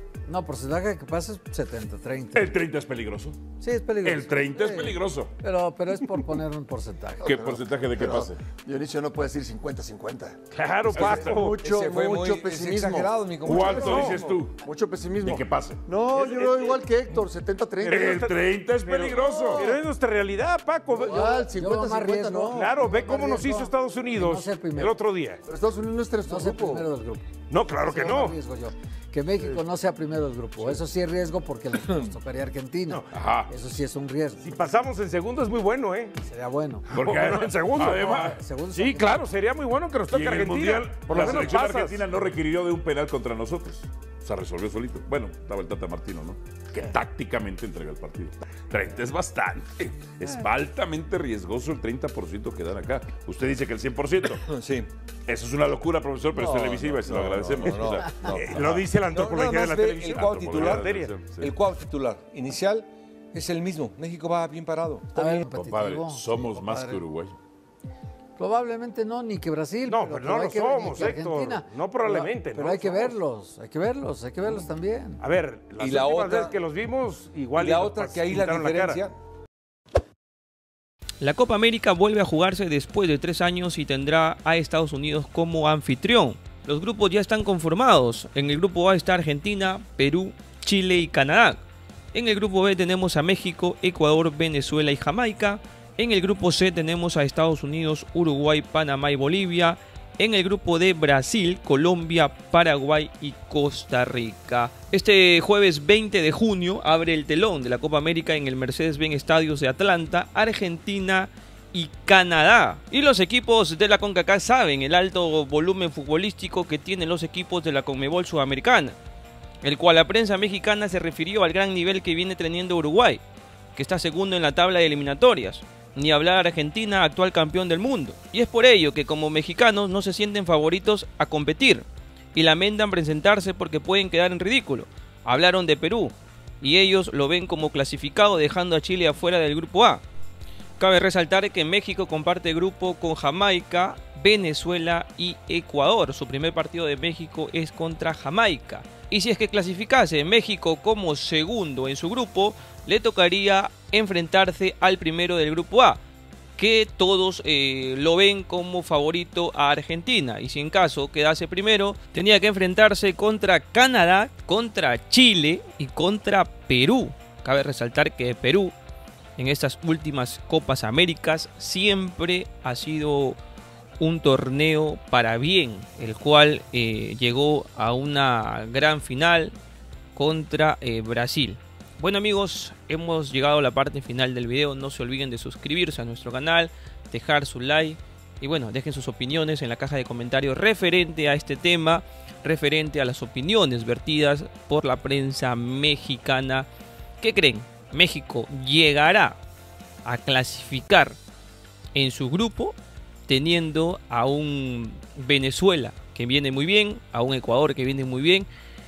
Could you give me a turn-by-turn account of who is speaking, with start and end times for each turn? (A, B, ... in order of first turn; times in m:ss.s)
0:00.3-0:02.6 A
0:02.3-0:03.4 B
0:03.6-0:07.3 A
0:04.0-0:05.3 B
0:07.2-0:10.4 C
0:07.2-0:08.4 B
0:10.5-0:11.6 D
0:10.9-0:18.0 C
0:10.9-0:11.5 B
0:11.6-0:14.3 E
0:13.4-0:14.6 B
0:15.2-0:15.8 B
0:16.2-0:16.8 D
0:17.8-0:21.2 D
0:17.8-0:19.7 B
0:20.9-0:23.6 C
0:21.0-0:25.0 A
0:22.5-0:25.4 D
0:25.4-0:26.9 C
0:26.3-0:34.5 A
0:27.5-0:28.3 D
0:31.8-0:32.1 E
0:33.1-0:33.5 B
0:34.4-0:36.1 D
0:36.2-0:36.9 A
0:36.9-0:38.2 D
0:36.9-0:38.4 B
0:37.9-0:39.3 A
0:38.7-0:42.0 D
0:40.1-0:54.4 B
0:41.1-0:41.5 A
0:54.5-0:54.9 E
0:55.3-0:58.7 B
0:56.3-1:05.2 E
0:58.3-1:01.1 D
1:00.1-1:01.5 B
1:05.1-1:07.0 A
1:05.5-1:07.4 B
1:08.4-1:15.2 A
1:09.9-1:13.1 D
1:15.2-1:19.1 D
1:15.8-1:16.6 E
1:17.6-1:19.2 E
1:21.2-1:31.6 F
1:32.1-1:59.0 F
1:59.6-2:03.2 F
2:03.8-2:20.0 F
2:20.8-2:36.0 F
2:36.6-2:48.8 F
2:49.4-2:53.4 F
2:54.0-2:59.6 F
3:00.2-3:16.7 F
3:17.2-3:19.4 F
3:20.0-3:21.2 F
3:22.0-3:28.5 F